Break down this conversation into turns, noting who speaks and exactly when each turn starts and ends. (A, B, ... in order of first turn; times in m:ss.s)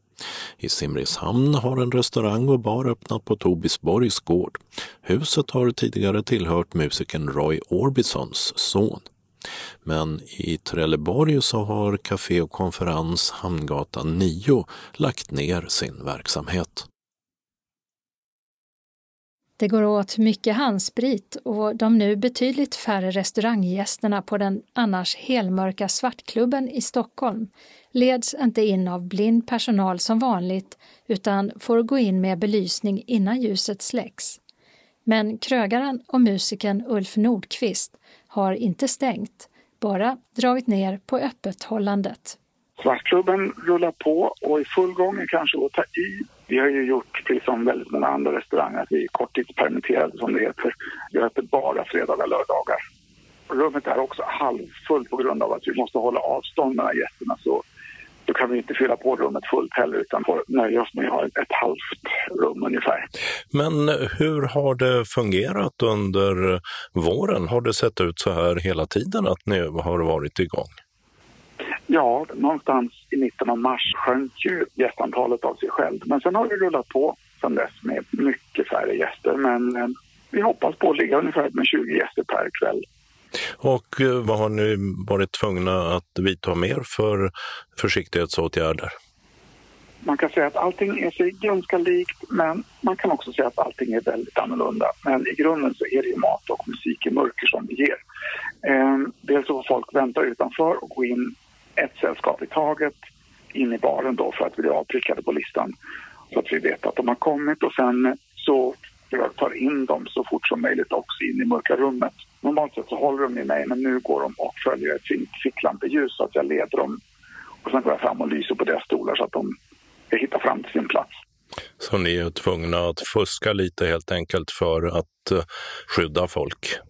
0:00.6-0:09.1 A
0:09.8-0:16.9 A
0:19.6-0:34.4 B
0:35.1-0:42.4 B
0:42.8-0:52.8 C
0:53.5-0:57.6 C
0:58.3-1:03.1 C
1:03.5-1:10.8 A
1:11.9-1:22.8 C
1:23.6-1:29.0 A
1:30.0-1:38.0 C
1:38.6-1:43.0 C
1:43.5-1:45.7 C
1:46.3-1:57.0 C
1:57.6-1:59.5 C
2:00.1-2:01.1 C
2:01.8-2:06.8 A